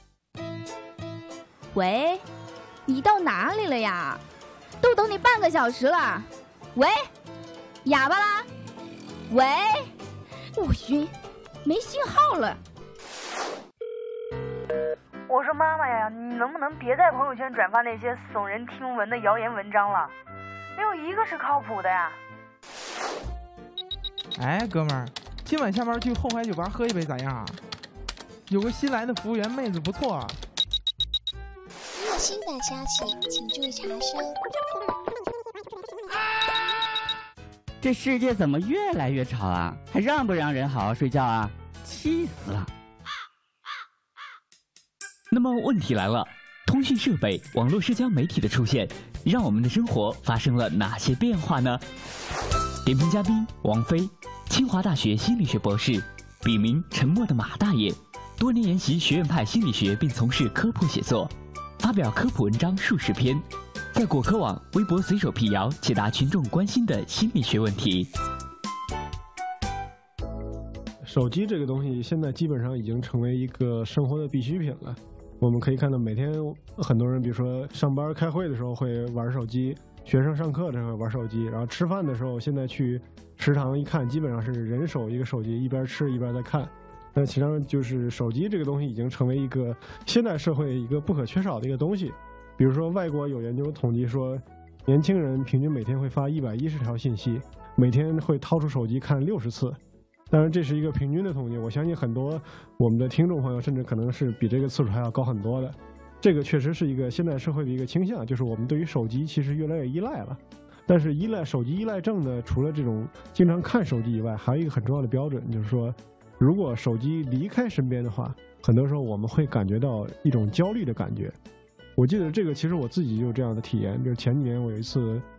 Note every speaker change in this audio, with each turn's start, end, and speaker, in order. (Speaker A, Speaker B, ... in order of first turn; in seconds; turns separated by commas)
Speaker A: 1.7-2.2, Speaker A: 2.9-4.2, Speaker A: 4.8-7.1, Speaker A: 7.8-8.5, Speaker A: 9.3-9.9, Speaker A: 10.5-11.1, Speaker A: 11.6-12.6, Speaker B: 15.3-20.1, Speaker B: 20.8-22.2, Speaker C: 24.4-27.6, Speaker C: 28.5-30.4, Speaker D: 31.9-34.4, Speaker E: 37.8-42.7, Speaker F: 45.3-51.8, Speaker F: 52.8-68.1, Speaker G: 71.0-99.8, Speaker G: 100.3-121.3, Speaker G: 122.0-125.2